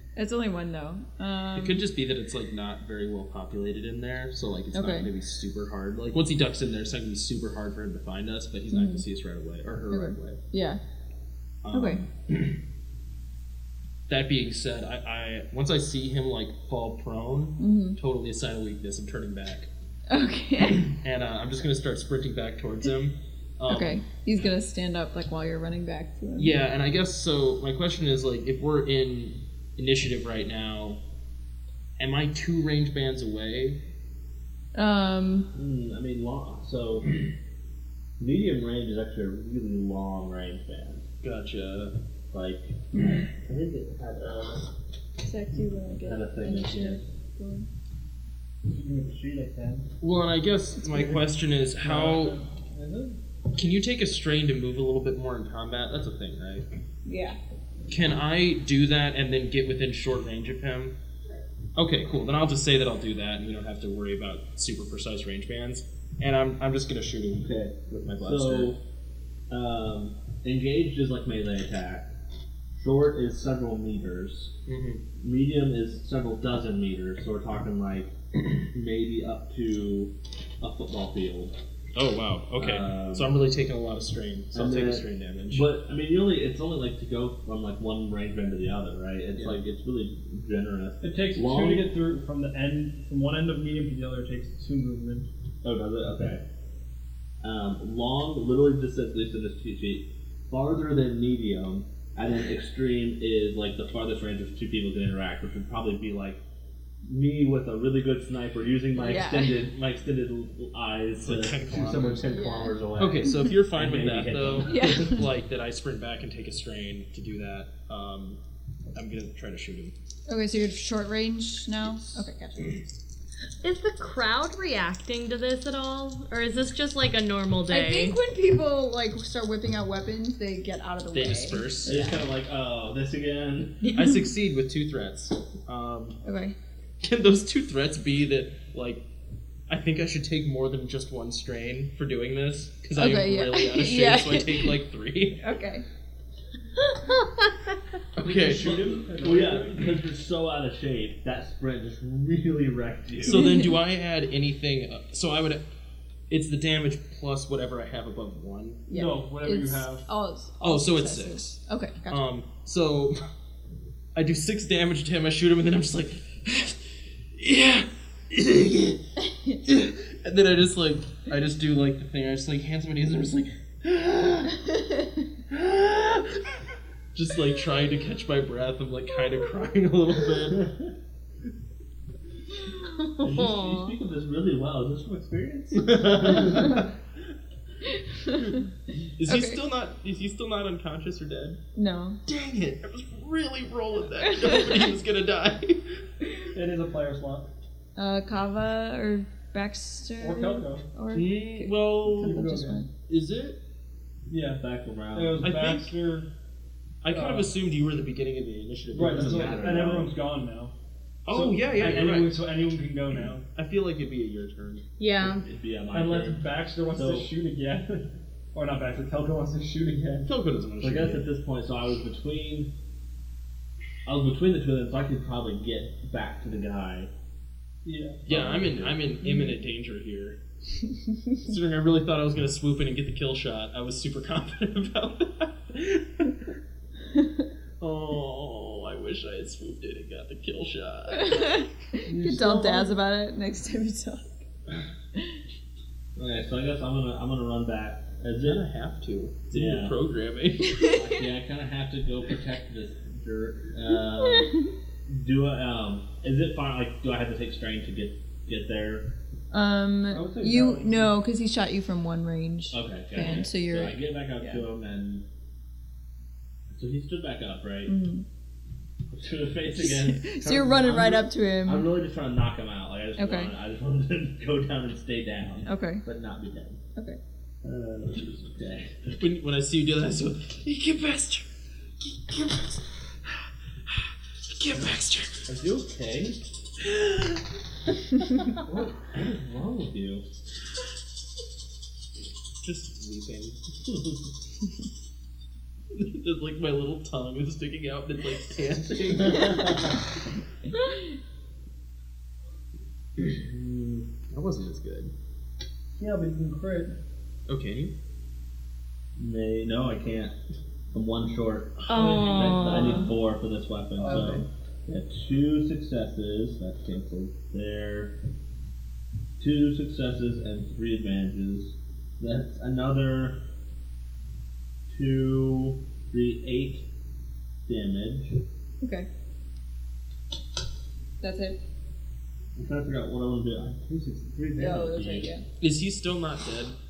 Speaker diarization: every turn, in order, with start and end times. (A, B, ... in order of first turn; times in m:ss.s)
0:00.2-0:01.8 A
0:01.6-0:10.4 B
0:04.7-0:05.1 A
0:08.7-0:09.0 A
0:09.9-0:10.8 A
0:11.6-0:12.6 B
0:11.7-0:12.0 A
0:14.1-0:19.7 B
0:17.6-0:18.0 A
0:20.1-0:20.9 A
0:20.8-0:24.0 B
0:23.7-0:26.6 A
0:26.4-0:31.0 B
0:32.0-0:33.8 B
0:34.8-0:35.5 A
0:35.5-0:37.1 C
0:38.2-0:41.0 C
0:41.2-0:41.9 B
0:42.3-0:44.7 C
0:45.2-0:47.7 A
0:46.0-0:47.0 C
0:48.7-0:49.9 D
0:50.0-0:52.4 B
0:51.8-0:53.2 D
0:53.5-0:56.6 B
0:57.0-0:57.4 A
0:57.9-1:00.9 B
1:01.8-1:08.7 B
1:07.4-1:08.8 C
1:09.5-1:12.1 C
1:12.8-1:14.5 C
1:14.7-1:15.0 B
1:15.2-1:18.1 C
1:18.7-1:21.6 C
1:22.0-1:25.7 B
1:22.6-1:23.4 C
1:24.5-1:31.9 C
1:31.0-1:35.3 D
1:35.6-1:36.4 C
1:37.4-1:46.4 C
1:47.0-1:55.2 C
1:48.9-1:49.6 A
1:51.2-1:52.3 B
1:52.3-1:52.8 A
1:53.0-1:58.4 B
1:54.6-1:55.2 A
1:58.9-1:59.9 B
2:00.3-2:02.8 A
2:03.6-2:08.2 E
2:07.7-2:12.1 A
2:11.1-2:12.1 B
2:11.8-2:13.8 C
2:13.8-2:14.2 A
2:13.9-2:16.2 B
2:16.2-2:16.6 A
2:17.0-2:19.0 B
2:19.7-2:25.5 B
2:23.0-2:24.8 A
2:25.4-2:25.8 A
2:26.8-2:27.8 E
2:28.2-2:29.0 B
2:28.2-2:29.9 D
2:28.6-2:33.5 C
2:33.2-2:35.6 B
2:33.3-2:33.8 A
2:36.3-2:38.8 B
2:38.9-2:42.2 A
2:38.9-2:40.0 D
2:40.6-2:41.6 B
2:42.1-2:43.2 B
2:44.2-2:46.8 B
2:47.4-2:49.0 B
2:49.6-2:54.6 B
2:54.7-2:55.2 A
2:55.5-2:56.6 B
2:57.1-3:00.7 B
3:03.2-3:04.0 E
3:03.2-3:06.9 C
3:05.8-3:06.8 B
3:08.1-3:08.6 A
3:09.2-3:11.6 B
3:09.3-3:09.6 A
3:11.8-3:12.2 A
3:12.3-3:16.0 B
3:14.4-3:14.8 A
3:16.5-3:17.5 D
3:18.0-3:22.9 A
3:20.2-3:20.9 D
3:21.1-3:22.4 B
3:22.2-3:22.9 D
3:23.1-3:23.6 B
3:24.3-3:24.6 D
3:24.6-3:25.4 C
3:25.1-3:26.3 D
3:25.4-3:25.9 B
3:27.0-3:29.8 B
3:27.1-3:27.5 D
3:28.9-3:30.1 C
3:28.9-3:30.7 D
3:31.3-3:32.5 B
3:31.3-3:33.4 D
3:33.5-3:34.9 B
3:35.0-3:35.4 E
3:35.2-3:37.3 C
3:35.9-3:40.3 D
3:40.2-3:41.3 B
3:40.8-3:42.7 C
3:44.0-3:47.1 C
3:47.8-3:48.2 D
3:48.3-3:50.4 B
3:48.3-3:49.0 C
3:49.2-3:49.6 A
3:51.4-3:56.3 B
3:57.8-4:01.6 B
4:01.1-4:04.4 A
4:02.0-4:02.9 D
4:06.2-4:08.6 C
4:08.4-4:10.8 B
4:09.5-4:10.0 C
4:10.6-4:11.2 A
4:10.8-4:19.1 C
4:14.2-4:14.7 A
4:19.5-4:24.6 A
4:20.1-4:21.1 D
4:22.7-4:25.2 C
4:26.7-4:28.0 C
4:27.9-4:28.2 A
4:29.1-4:36.8 C
4:29.8-4:31.9 A
4:33.2-4:33.5 A
4:35.7-4:36.0 A
4:37.6-4:39.0 C
4:39.1-4:41.5 B
4:42.0-4:42.9 B
4:43.9-4:45.4 B
4:45.5-4:46.4 C
4:48.7-4:50.2 C
4:52.6-4:53.6 B
4:55.9-4:59.9 B
4:59.2-5:00.0 C
5:03.2-5:04.1 C
5:04.3-5:05.1 B
5:06.0-5:07.0 D
5:07.5-5:07.9 B
5:09.2-5:10.4 C
5:10.9-5:18.2 C
5:11.9-5:13.1 E
5:12.0-5:12.9 D
5:12.0-5:12.4 B
5:14.0-5:14.5 D
5:19.4-5:23.4 C
5:24.9-5:26.9 C
5:27.7-5:28.4 C
5:28.8-5:29.1 A
5:31.2-5:31.6 A
5:32.6-5:35.4 C
5:34.6-5:35.4 A
5:35.6-5:36.8 B